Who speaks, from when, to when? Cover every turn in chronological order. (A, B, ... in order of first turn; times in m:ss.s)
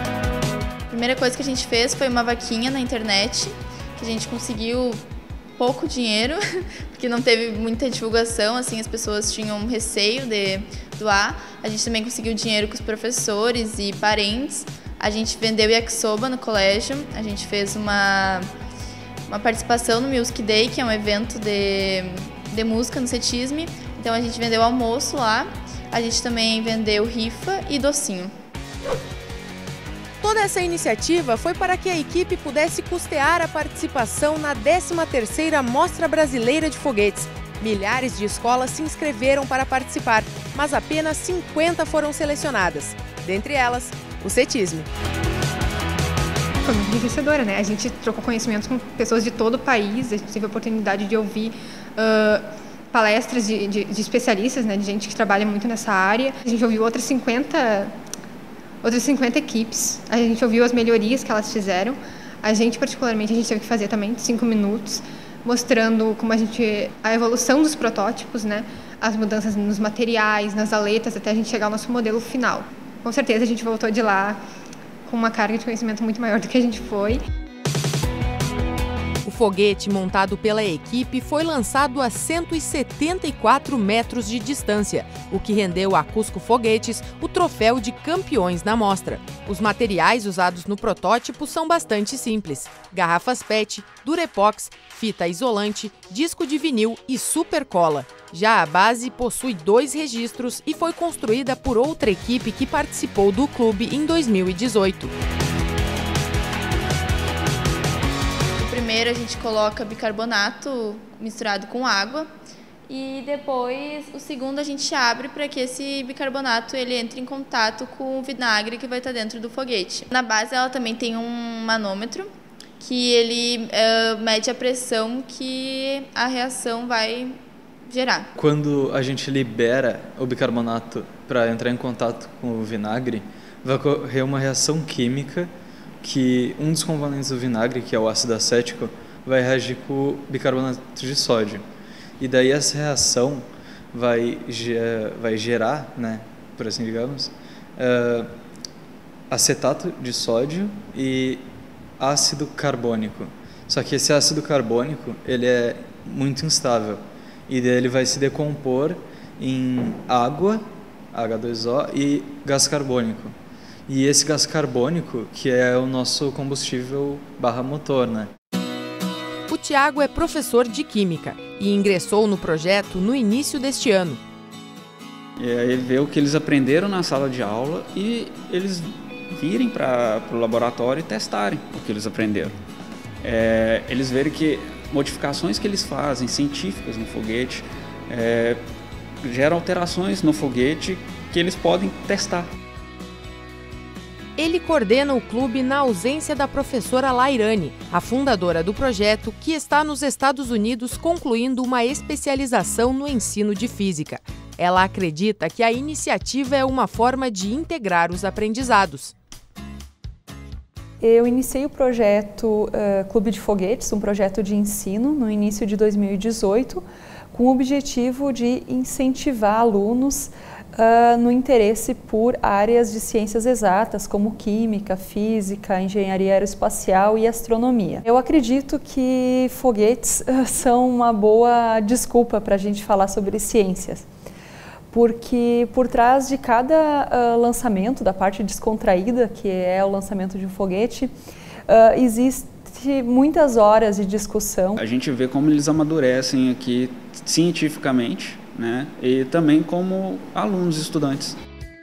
0:00.9-0:05.0 A
0:05.6-0:18.5 A
0:19.3-0:28.3 A
0:30.2-0:44.9 B
0:46.6-0:57.9 C
0:58.8-1:14.4 C
1:15.0-1:17.2 C
1:19.2-1:45.1 B
1:48.6-1:52.3 A
1:52.9-2:08.3 A
2:08.4-2:15.5 D
2:16.0-2:21.6 D
2:22.2-2:28.3 D
2:29.3-2:31.4 D
2:32.0-2:43.3 D
2:43.9-2:48.3 D
2:49.5-2:54.2 B
2:55.4-3:02.5 E
3:03.2-3:08.6 E
3:09.2-3:12.5 E
3:14.4-3:29.1 B
3:31.0-3:54.0 F
3:54.9-4:01.1 F
4:01.7-4:04.8 F
4:04.8-4:11.4 E